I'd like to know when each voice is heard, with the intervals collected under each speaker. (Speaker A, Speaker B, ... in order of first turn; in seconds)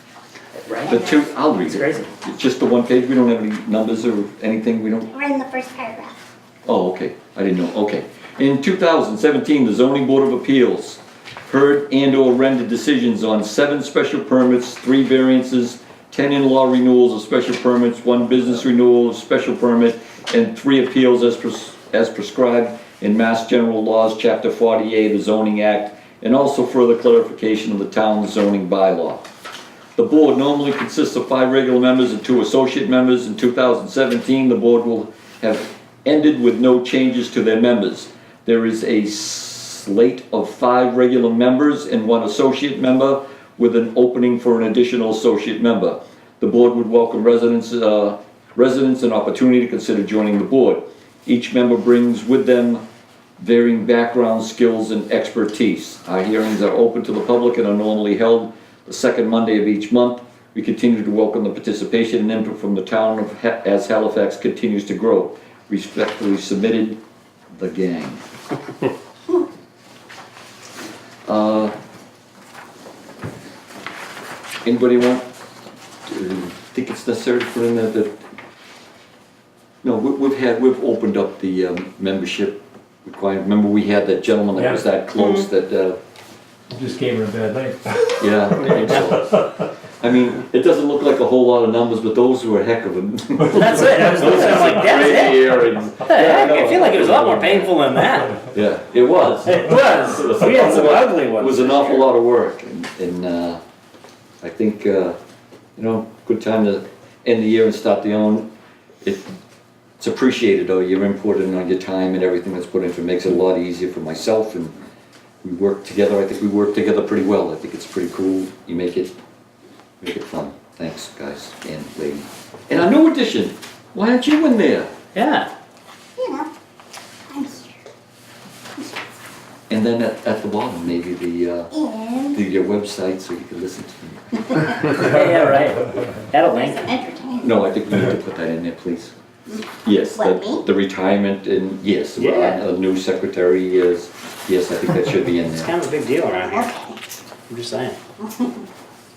Speaker A: 0.7-2.1, 85.2-85.5, 93.5-98.4, 99.4-102.1, 125.1-125.5, 134.8-136.9, 142.2-142.6, 145.5-146.7, 147.5-148.0
Speaker B: 0.8-5.1, 6.7-29.2, 29.9-52.8, 53.4-67.0, 67.5-68.2, 71.2-71.7, 74.6-75.2, 76.1-78.2, 79.8-86.0, 88.2-97.7, 98.5-103.6, 104.4-105.2, 105.8-108.5, 109.0-109.3, 110.0-114.7, 115.4-119.1, 120.0-124.9, 129.7-131.7, 132.3-134.9, 137.4-139.1, 139.8-145.7
Speaker C: 5.1-6.2, 126.2-126.5, 127.3-127.8, 131.7-132.4, 136.4-137.6, 139.5-140.6, 146.3-147.0, 148.2-148.7
Speaker D: 84.6-84.8, 86.7-88.2, 94.2-94.7